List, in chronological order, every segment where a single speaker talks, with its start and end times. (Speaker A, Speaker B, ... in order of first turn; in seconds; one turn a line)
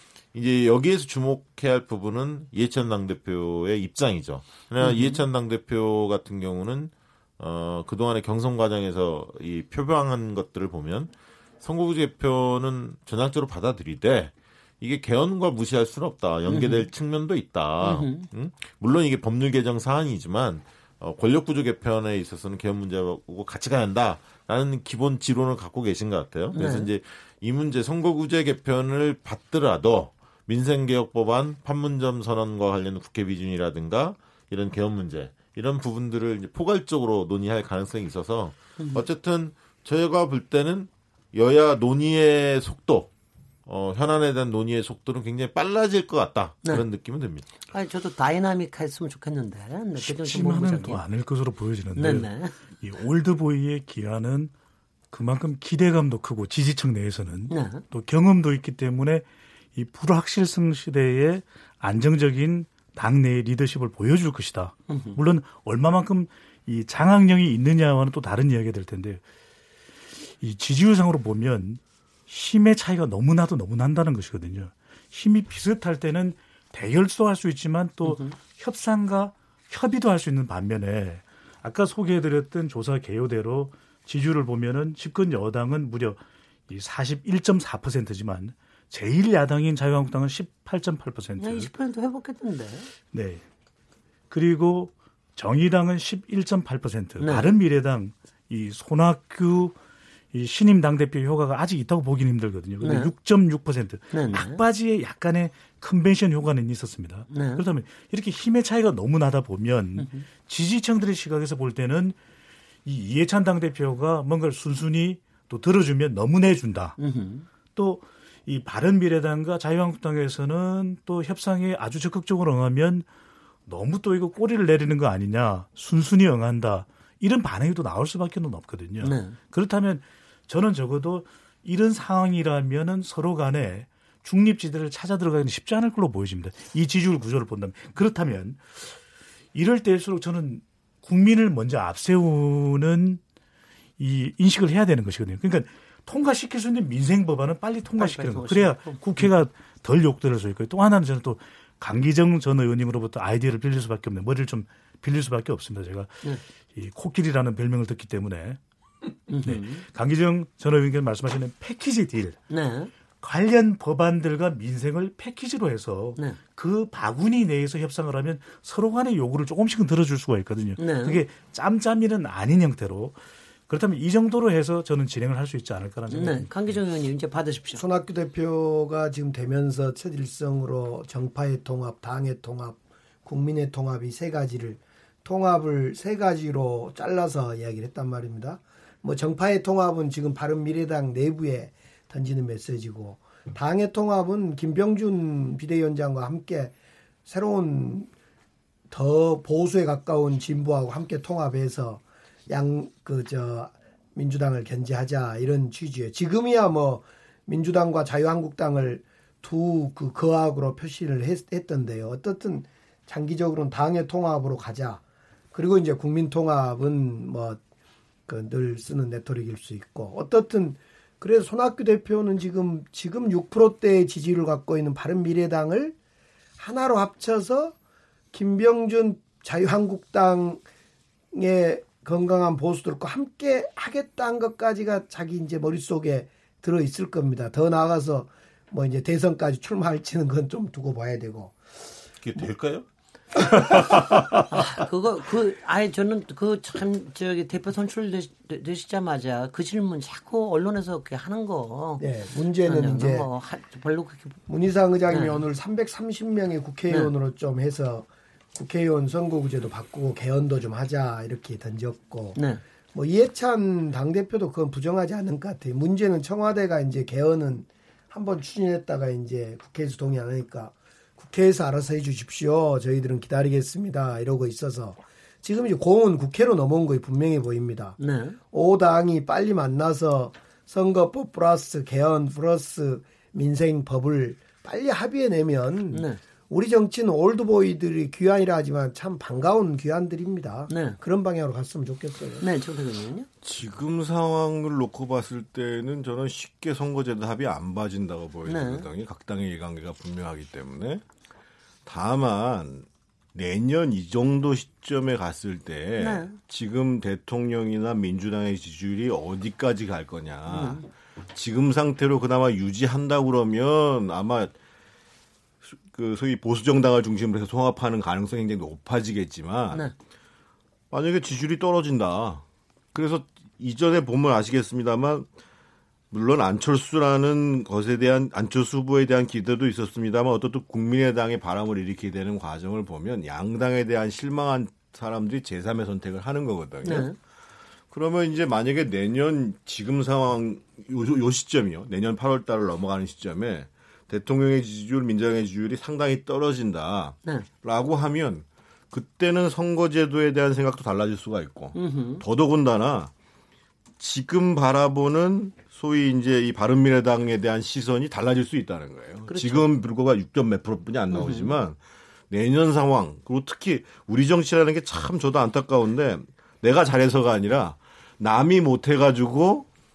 Speaker A: 0.3-43.1
Speaker B: 4.8-5.2
Speaker B: 16.5-16.9
Speaker B: 17.8-18.3
Speaker B: 26.5-26.9
Speaker B: 38.8-39.0
Speaker A: 43.6-47.5
Speaker B: 47.7-51.0
Speaker C: 50.0-54.5
Speaker B: 51.9-52.5
Speaker C: 55.1-69.2
Speaker B: 57.5-57.8
Speaker B: 64.9-65.2
Speaker C: 70.4-91.7
Speaker B: 78.0-78.3
Speaker B: 91.4-92.9
Speaker C: 93.1-93.4
Speaker C: 94.3-99.7
Speaker B: 97.2-97.5
Speaker C: 100.3-112.2
Speaker B: 102.8-103.1
Speaker B: 104.1-104.6
Speaker B: 107.3-107.6
Speaker B: 110.0-110.2
Speaker C: 112.8-117.0
Speaker B: 117.0-117.5
Speaker C: 117.7-123.1
Speaker C: 123.7-138.9
Speaker B: 129.0-129.4
Speaker C: 139.5-143.2
Speaker C: 144.0-156.2
Speaker B: 148.0-149.3
Speaker C: 156.7-158.6
Speaker B: 159.3-159.8
Speaker C: 159.4-162.4
Speaker B: 162.5-162.9
Speaker C: 163.2-176.5
Speaker B: 170.8-171.2
Speaker B: 176.1-177.8
Speaker D: 177.8-196.7
Speaker D: 197.2-198.1
Speaker D: 198.9-215.0
Speaker D: 215.5-217.6
Speaker D: 218.3-225.9
Speaker D: 226.6-227.7
Speaker D: 228.3-230.6
Speaker D: 231.3-241.6
Speaker A: 242.2-242.8
Speaker A: 243.7-244.0
Speaker B: 244.4-252.0
Speaker D: 252.0-253.3
Speaker B: 252.6-254.4
Speaker D: 254.5-262.4
Speaker B: 255.1-255.4
Speaker B: 262.4-262.6
Speaker D: 262.9-278.0
Speaker B: 278.0-278.4
Speaker D: 278.5-292.4
Speaker B: 285.9-286.2
Speaker B: 290.7-291.0
Speaker B: 292.4-293.3
Speaker E: 293.4-301.0
Speaker B: 298.4-298.9
Speaker E: 301.8-314.5
Speaker B: 306.0-306.4
Speaker B: 310.5-310.9
Speaker E: 315.6-319.9
Speaker E: 320.9-325.3
Speaker E: 326.1-337.1
Speaker B: 336.8-337.1
Speaker E: 337.9-353.1
Speaker B: 351.7-352.2
Speaker E: 354.0-369.7
Speaker B: 359.3-359.6
Speaker B: 361.1-361.5